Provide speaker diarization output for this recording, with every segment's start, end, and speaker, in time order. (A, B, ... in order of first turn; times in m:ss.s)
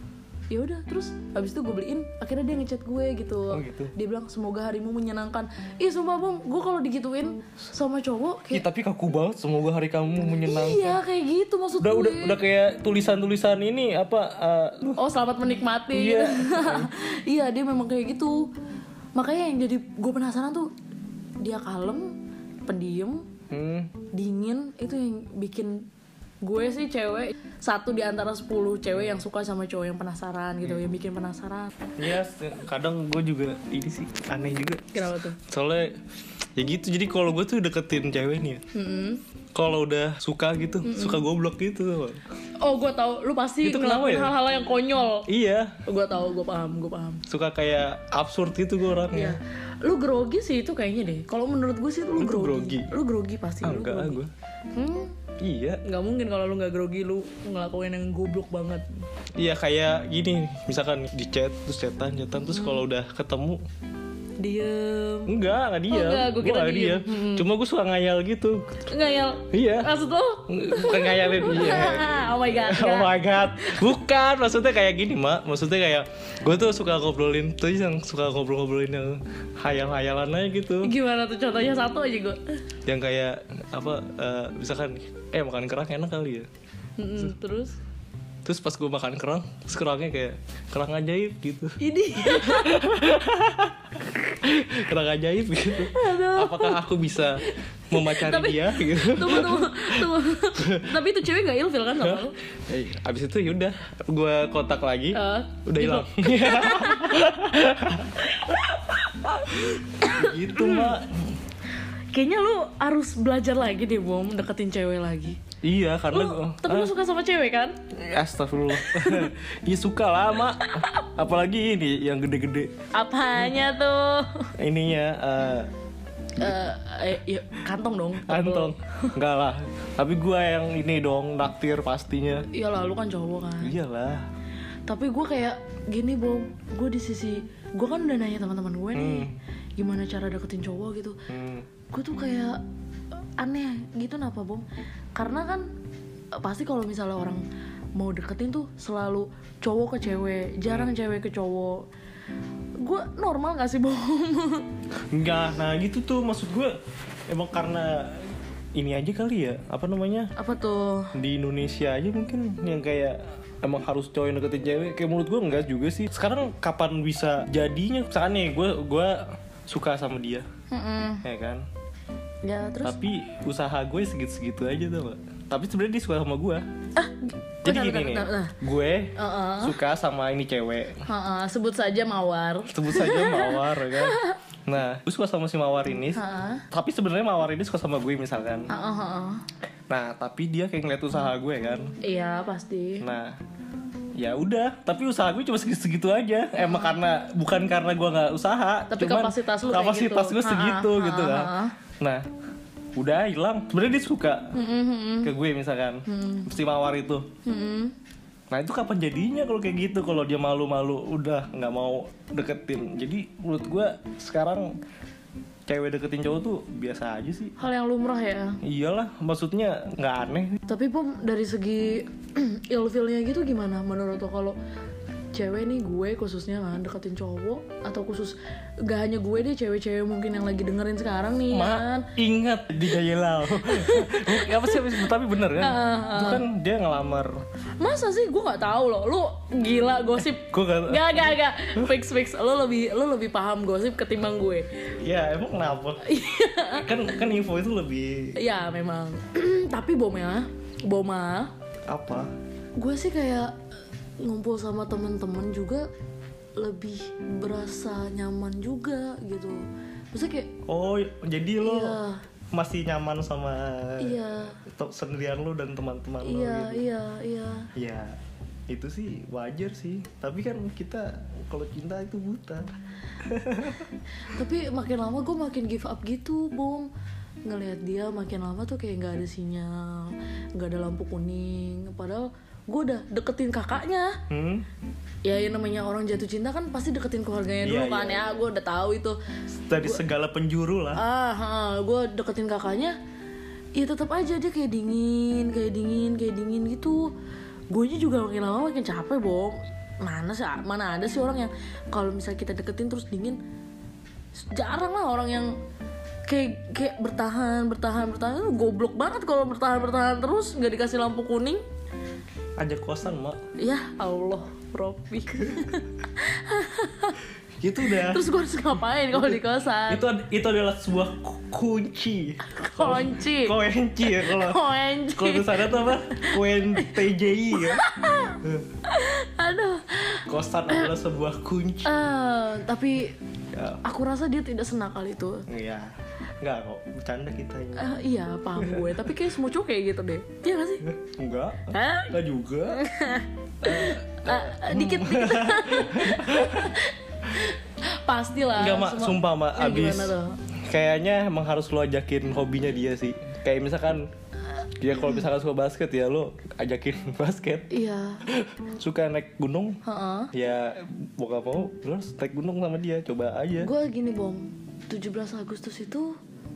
0:00.5-0:08.7 A
0:03.5-0:03.9 B
0:08.5-0:11.0 B
0:10.4-0:12.4 A
0:11.8-0:15.0 B
0:15.0-0:18.5 A
0:15.9-0:16.9 B
0:19.2-0:20.7 A
0:21.4-0:23.3 A
0:23.5-0:23.9 B
0:24.1-0:25.9 A
0:26.4-0:31.7 A
0:29.0-0:29.2 B
0:32.0-0:36.0 B
0:34.9-0:35.4 A
0:36.6-0:38.6 B
0:38.7-0:39.2 A
0:39.6-0:42.2 B
0:40.8-0:41.2 A
0:42.6-0:45.3 A
0:43.6-0:44.3 B
0:45.3-0:45.8 B
0:45.9-0:47.2 A
0:47.3-0:49.4 B
0:49.1-0:54.2 A
0:52.2-0:53.0 B
0:53.6-0:54.3 B
0:54.7-0:55.2 A
0:55.4-0:55.8 B
0:55.8-0:58.8 A
0:59.4-1:03.6 B
1:02.5-1:02.8 A
1:04.4-1:05.3 A
1:05.3-1:08.8 B
1:05.9-1:07.5 A
1:08.9-1:13.9 A
1:09.5-1:09.9 B
1:10.5-1:20.9 B
1:20.8-1:22.5 A
1:22.9-1:26.5 B
1:27.0-1:27.8 A
1:28.4-1:40.9 B
1:31.8-1:32.9 A
1:35.8-1:36.8 A
1:37.5-1:42.4 A
1:42.0-1:51.4 B
1:45.1-1:47.3 A
1:48.3-1:48.6 A
1:49.5-1:51.0 A
1:52.1-1:55.4 A
1:55.6-1:56.9 B
1:56.1-1:57.8 A
1:57.9-2:02.7 B
1:58.7-1:59.3 A
2:00.6-2:01.1 A
2:02.9-2:04.5 A
2:04.6-2:05.7 B
2:06.4-2:09.2 A
2:08.3-2:12.5 B
2:12.5-2:13.8 A
2:13.6-2:14.2 B
2:14.9-2:21.2 A
2:18.9-2:19.3 B
2:21.3-2:21.7 B
2:21.9-2:22.6 A
2:23.4-2:25.7 A
2:26.4-2:27.4 A
2:28.0-2:31.9 A
2:30.7-2:30.9 B
2:32.8-2:34.7 A
2:35.1-2:36.8 B
2:37.3-2:40.3 B
2:40.4-2:41.1 A
2:41.2-2:50.5 B
2:50.7-2:51.2 A
2:51.2-2:51.7 B
2:52.4-2:53.0 A
2:52.8-2:56.6 B
2:57.0-2:58.5 A
2:57.6-3:01.0 B
2:59.2-2:59.8 A
3:01.1-3:04.4 A
3:02.7-3:08.7 B
3:06.1-3:06.6 A
3:08.7-3:09.4 A
3:09.9-3:12.0 B
3:12.0-3:13.1 A
3:13.0-3:13.4 B
3:14.2-3:22.2 B
3:16.6-3:17.0 A
3:18.9-3:21.7 A
3:23.0-3:24.5 B
3:24.5-3:25.3 A
3:25.2-3:27.3 B
3:26.1-3:26.5 A
3:27.4-3:27.9 A
3:28.5-3:34.8 B
3:35.7-3:37.5 B
3:37.6-3:38.6 A
3:38.6-3:40.6 B
3:40.7-3:44.6 A
3:45.3-3:52.1 A
3:51.5-3:57.4 B
3:53.6-3:56.4 A
3:57.8-4:04.7 A
4:00.5-4:01.3 B
4:05.0-4:06.0 B
4:06.0-4:06.9 A
4:06.8-4:08.4 B
4:08.4-4:11.5 A
4:11.9-4:12.3 B
4:12.8-4:13.6 A
4:14.2-4:15.9 A
4:16.6-4:20.5 A
4:20.7-4:22.0 B
4:21.6-4:22.2 A
4:22.5-4:26.9 B
4:24.0-4:24.6 A
4:26.2-4:27.7 A
4:27.8-4:28.2 B
4:28.7-4:33.9 B
4:34.2-4:36.9 A
4:37.4-4:44.2 A
4:44.3-4:44.6 B
4:45.2-4:49.2 A
4:47.6-4:48.4 B
4:49.5-4:51.0 B
4:50.9-4:53.0 A
4:53.8-4:57.1 A
4:57.7-5:03.4 A
5:04.4-5:05.6 A
5:06.3-5:11.6 A
5:12.6-5:13.4 B
5:13.6-5:17.2 A
5:17.6-5:18.3 B
5:17.8-5:20.0 A
5:19.1-5:27.8 B
5:22.5-5:30.9 A
5:28.4-5:28.7 B
5:30.3-5:31.9 B
5:31.8-5:33.2 A
5:33.5-5:33.8 B
5:33.8-5:35.5 A
5:35.5-5:37.9 B
5:37.8-5:40.9 A
5:38.6-5:39.1 B
5:40.8-5:42.8 B
5:41.7-5:50.4 A
5:43.6-5:46.8 B
5:48.6-5:54.1 B
5:54.8-5:57.7 B
5:57.7-5:58.2 A
5:58.2-5:59.8 B
5:59.8-6:00.3 A
6:00.3-6:03.7 B
6:03.6-6:06.2 A